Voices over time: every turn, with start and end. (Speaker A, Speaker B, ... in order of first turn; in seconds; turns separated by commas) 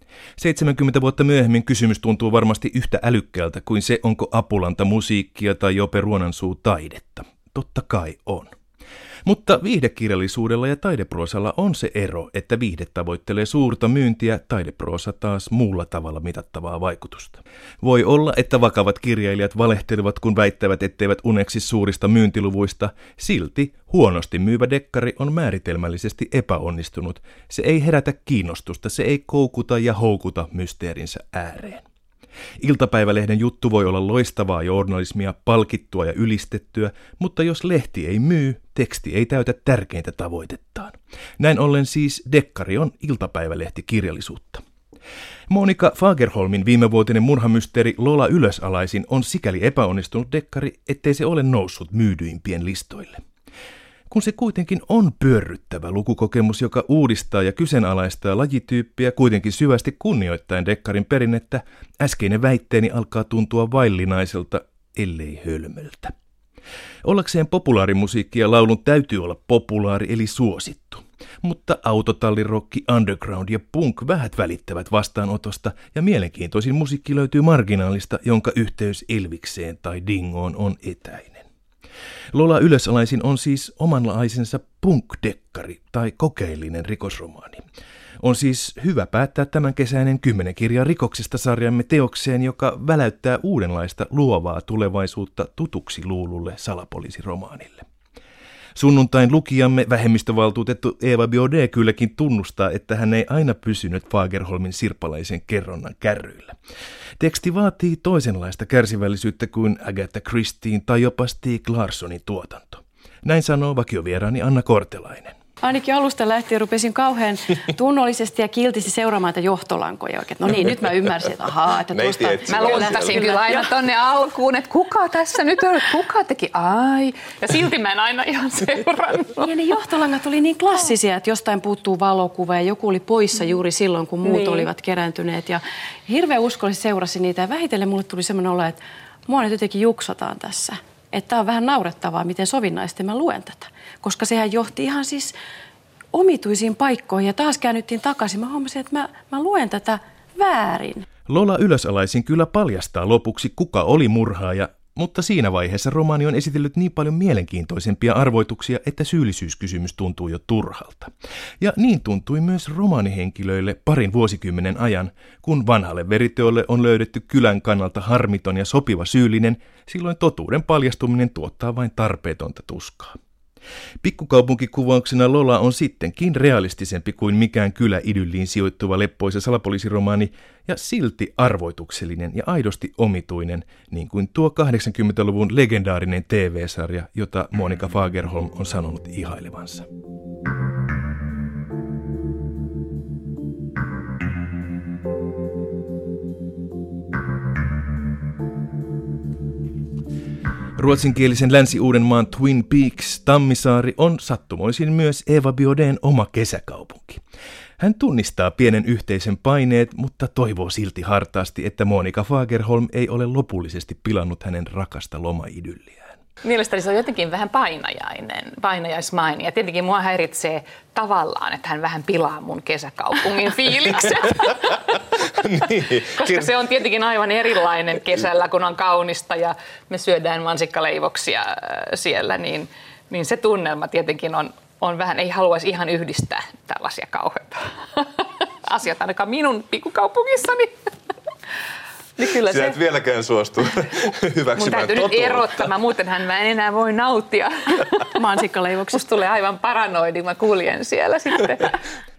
Speaker A: 0.4-8.5, Speaker A: 9.2-31.8, Speaker A: 32.6-44.6, Speaker A: 45.5-53.2, Speaker A: 54.1-66.1, Speaker A: 67.0-81.5, Speaker A: 82.3-87.6, Speaker A: 88.2-97.8, Speaker A: 98.7-106.5, Speaker A: 107.2-115.3, Speaker B: 115.6-123.7, Speaker C: 121.9-123.2, Speaker D: 122.5-129.5, Speaker B: 129.4-145.3, Speaker B: 146.1-151.0, Speaker A: 151.3-173.2, Speaker A: 174.0-189.8, Speaker A: 200.8-207.2, Speaker A: 207.8-216.2, Speaker D: 216.4-240.7, Speaker D: 242.2-242.8, Speaker C: 242.4-245.6, Speaker D: 244.5-248.2, Speaker B: 248.1-249.0, Speaker D: 248.9-251.8